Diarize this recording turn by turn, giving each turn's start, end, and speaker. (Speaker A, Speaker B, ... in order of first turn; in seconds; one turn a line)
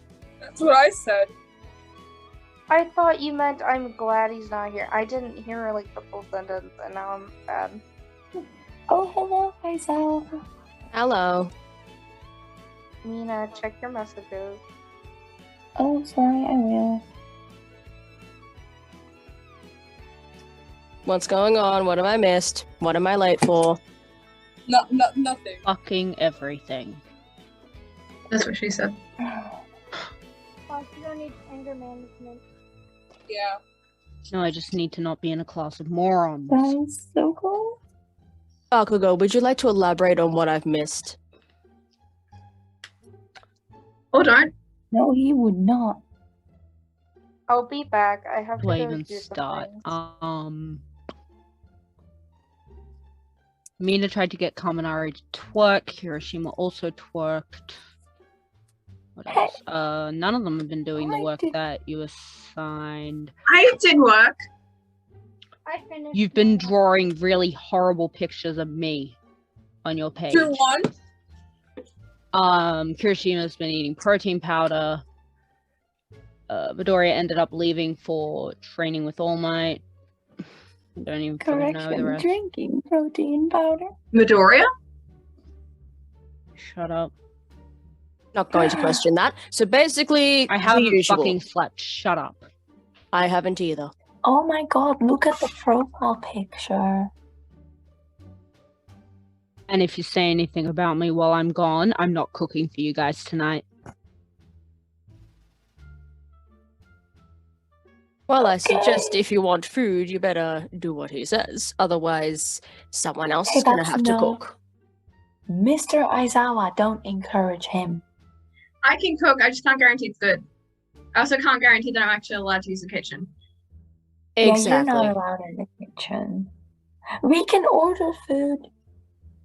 Speaker A: 0.4-1.3
Speaker B: 2.7-7.8
Speaker C: 8.9-10.3
Speaker D: 10.9-11.5
Speaker B: 13.0-14.6
Speaker C: 15.8-17.0
Speaker D: 21.0-23.8
Speaker A: 24.7-25.6
Speaker E: 25.6-27.0
Speaker F: 28.3-28.9
Speaker C: 29.2-29.5
Speaker G: 30.7-32.4
Speaker A: 33.3-33.6
Speaker E: 34.3-36.8
Speaker C: 36.5-37.8
Speaker D: 38.7-41.2
Speaker F: 44.1-44.5
Speaker C: 44.9-46.0
Speaker B: 47.5-49.9
Speaker E: 48.6-50.8
Speaker E: 53.8-57.8
Speaker E: 59.1-63.3
Speaker C: 59.3-59.6
Speaker C: 61.0-61.5
Speaker F: 63.5-64.3
Speaker G: 65.7-66.7
Speaker E: 66.1-69.2
Speaker E: 69.8-70.6
Speaker A: 70.3-70.9
Speaker E: 72.3-75.0
Speaker E: 76.5-79.8
Speaker E: 81.0-82.3
Speaker C: 81.4-83.9
Speaker F: 84.1-84.7
Speaker E: 86.6-87.1
Speaker D: 88.3-91.4
Speaker C: 88.5-89.0
Speaker E: 90.5-92.5
Speaker D: 93.1-93.9
Speaker C: 94.2-97.1
Speaker E: 99.7-103.7
Speaker D: 108.3-114.5
Speaker C: 108.4-109.2
Speaker C: 113.5-114.4
Speaker C: 115.5-118.0
Speaker F: 118.8-120.4
Speaker F: 121.1-123.3
Speaker D: 124.4-125.1
Speaker C: 124.4-126.5
Speaker C: 127.2-128.7